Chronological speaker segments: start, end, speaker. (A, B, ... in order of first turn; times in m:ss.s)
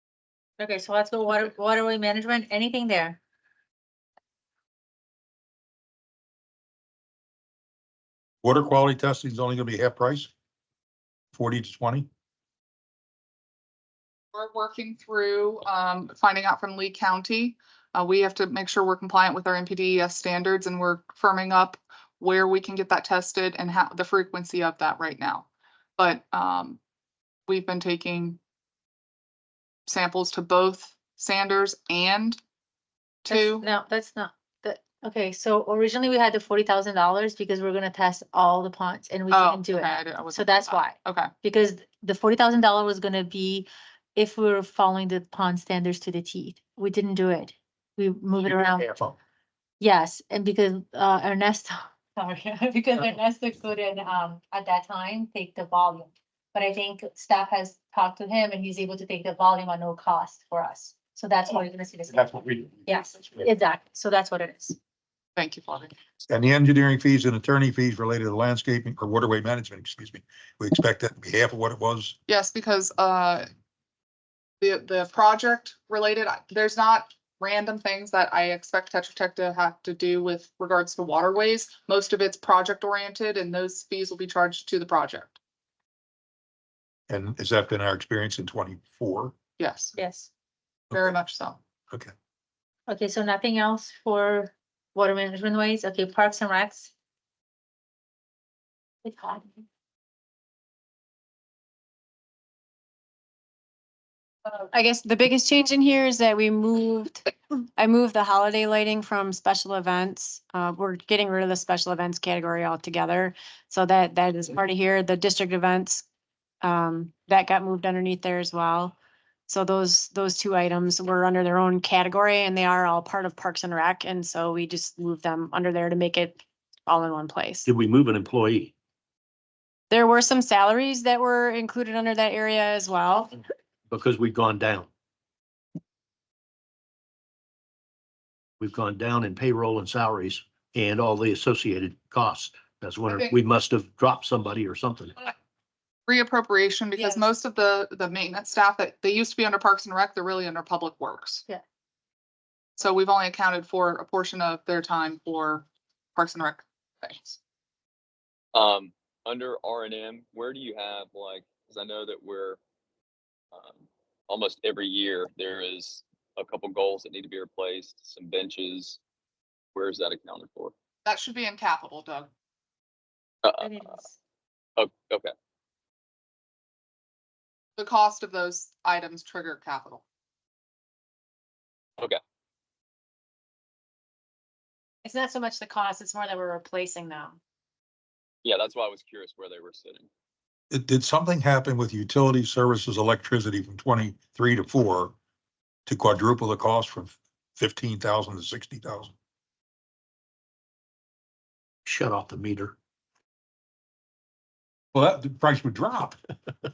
0:00.6-0:03.2 A
0:08.4-0:10.3 B
0:11.3-0:12.1 B
0:14.3-0:26.8 C
0:27.5-0:28.4 C
0:29.9-0:32.4 C
0:33.2-0:33.6 C
0:33.3-0:48.9 A
0:39.3-0:41.3 C
0:49.8-1:04.8 A
1:05.4-1:05.9 C
1:06.3-1:12.2 B
1:12.3-1:13.5 C
1:14.6-1:25.4 C
1:27.1-1:29.4 B
1:29.6-1:30.0 C
1:30.0-1:30.3 A
1:30.9-1:31.6 C
1:32.9-1:36.9 A
1:39.0-1:39.6 A
1:44.5-1:56.0 D
1:56.6-1:59.0 D
1:59.5-2:07.7 D
2:07.7-2:08.7 E
2:09.9-2:13.4 D
2:13.9-2:14.9 E
2:18.6-2:25.3 E
2:23.1-2:23.4 C
2:26.1-2:31.4 C
2:27.0-2:27.3 A
2:32.8-2:37.4 C
2:38.5-2:42.6 F
2:43.5-2:49.0 F
2:49.8-2:50.7 F
2:51.0-2:52.3 C
2:53.4-2:53.9 F
2:53.6-2:54.2 A
2:54.8-2:55.3 F
2:57.8-3:00.0 C
3:05.0-3:07.4 D
3:08.4-3:10.1 F
3:10.7-3:15.2 B
3:15.9-3:19.1 B
3:21.9-3:22.8 E
3:24.9-3:26.2 B